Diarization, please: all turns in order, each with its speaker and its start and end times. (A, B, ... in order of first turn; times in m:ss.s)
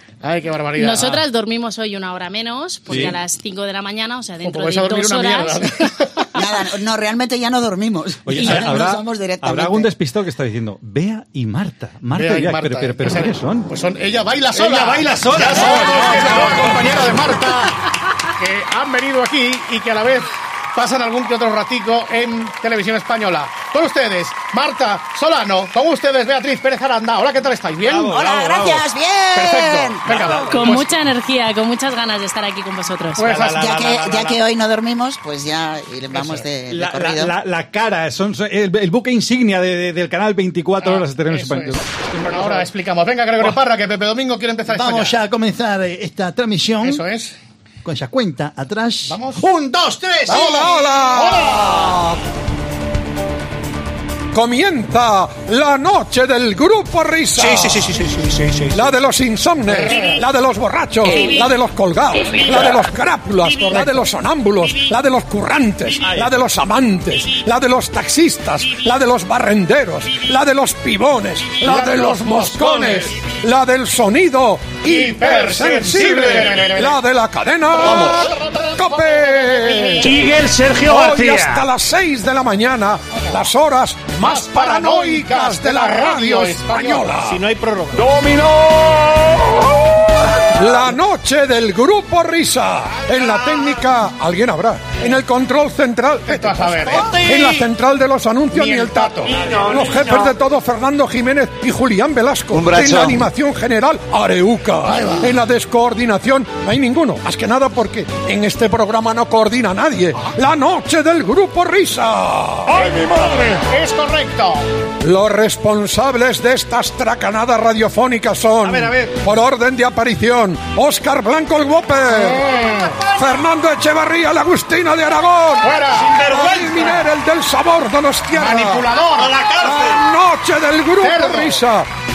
0:00.2-0:01.2 A
0:00.8-0:06.0 B
0:02.9-0:03.1 C
0:02.9-0:03.2 A
0:04.4-0:06.2 A
0:06.3-0:09.9 D
0:08.2-0:13.7 C
0:12.1-0:28.1 A
0:14.5-0:17.1 C
0:27.8-0:28.8 C
0:28.0-0:30.3 D
0:29.3-0:30.9 A
0:30.1-0:30.7 C
0:30.5-0:33.3 B
0:33.2-0:33.7 A
0:33.2-0:34.4 C
0:33.4-0:37.4 D
0:36.1-0:41.8 C
0:40.8-0:45.2 A
0:44.6-0:47.0 E
0:46.8-0:47.3 A
0:47.8-0:50.4 E
0:49.1-0:49.4 A
0:50.3-0:52.0 A
0:50.3-0:51.7 F
0:54.3-0:58.1 F
0:58.6-1:29.7 F
0:59.7-1:00.2 A
1:06.0-1:06.3 C
1:11.6-1:13.0 A
1:14.8-1:17.0 A
1:17.7-1:20.6 A
1:24.2-1:27.4 A
1:30.4-1:53.5 F
1:36.2-1:37.5 A
1:38.5-1:39.5 A
1:39.4-1:39.8 C
1:42.5-1:43.2 E
1:44.8-1:45.3 A
1:52.7-1:54.6 A
1:55.0-2:02.4 F
1:58.6-1:59.1 C
2:02.1-2:03.0 A
2:03.0-2:05.7 F
2:05.6-2:06.2 A
2:05.9-2:07.0 C
2:06.2-2:08.9 F
2:08.3-2:09.4 A
2:09.1-2:10.0 C
2:09.5-2:11.9 F
2:11.0-2:11.6 A